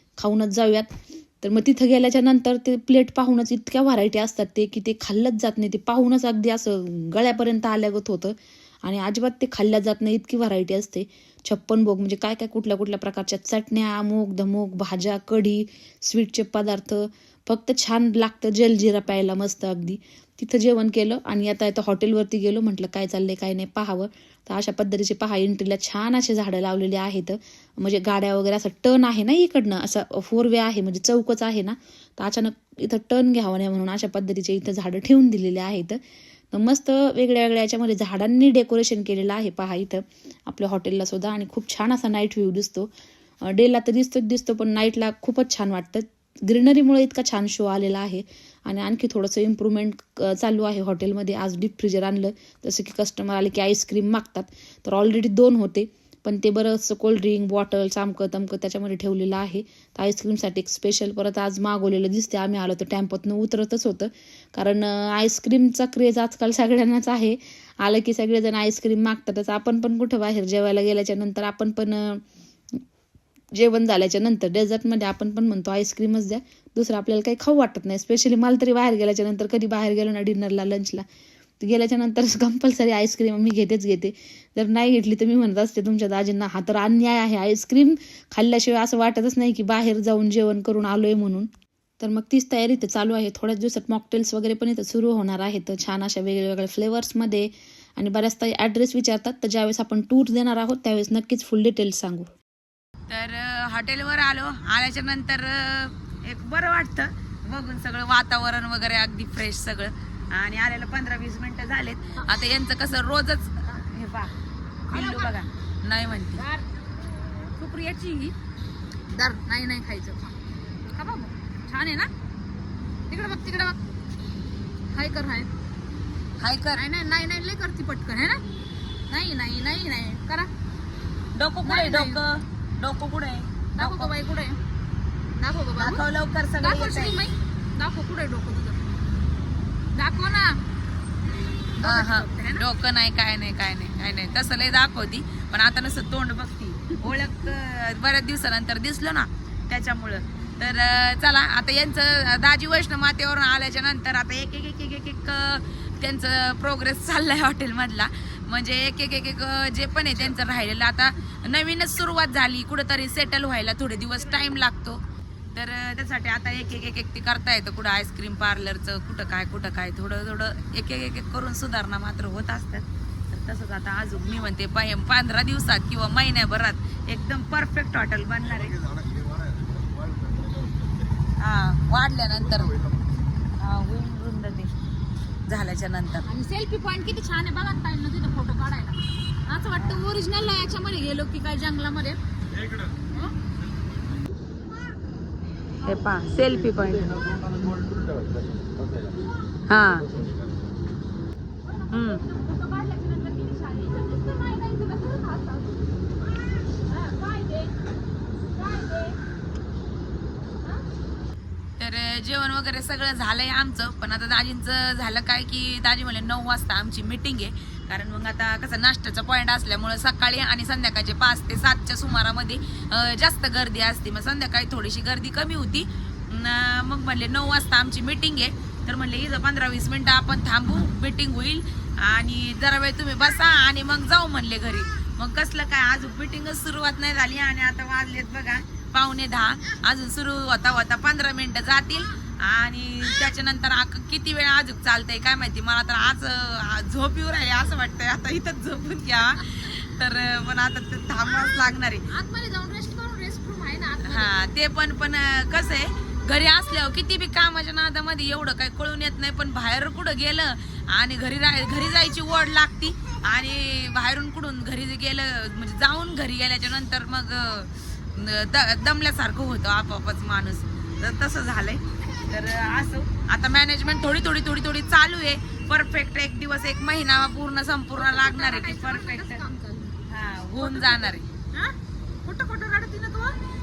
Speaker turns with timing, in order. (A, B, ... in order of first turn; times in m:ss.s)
0:00.2-0:36.0 A
0:36.5-0:42.9 A
0:43.4-1:12.2 A
1:13.6-1:21.0 A
1:21.6-1:31.5 A
1:32.0-1:42.3 A
1:43.1-1:54.3 B
1:54.9-1:55.3 C
1:54.9-1:56.4 B
1:56.4-1:56.7 C
1:57.4-1:58.3 C
1:59.1-2:02.1 C
2:03.1-2:03.8 C
2:04.9-2:05.5 C
2:06.4-2:06.8 B
2:06.7-2:08.4 C
2:09.1-2:10.5 C
2:11.3-2:14.1 B
2:11.6-2:12.2 C
2:13.7-2:14.6 C
2:15.4-2:16.0 C
2:15.8-2:17.2 B
2:16.6-2:18.9 C
2:19.9-2:20.6 C
2:21.8-2:22.7 C
2:21.9-2:45.0 B
2:45.6-2:58.8 B
3:01.4-3:02.8 B
3:03.6-3:04.7 B
3:05.5-3:06.3 B
3:06.3-3:12.2 C
3:15.8-3:17.2 B
3:19.2-3:20.0 C
3:19.7-3:20.1 B
3:21.6-3:26.0 C
3:21.9-3:22.2 B
3:26.7-3:27.9 C
3:28.5-3:29.2 C
3:31.8-4:12.0 B
4:11.2-4:14.4 C
4:14.0-4:39.4 B
4:38.0-4:40.1 C
4:40.1-4:41.3 B
4:40.6-4:43.4 C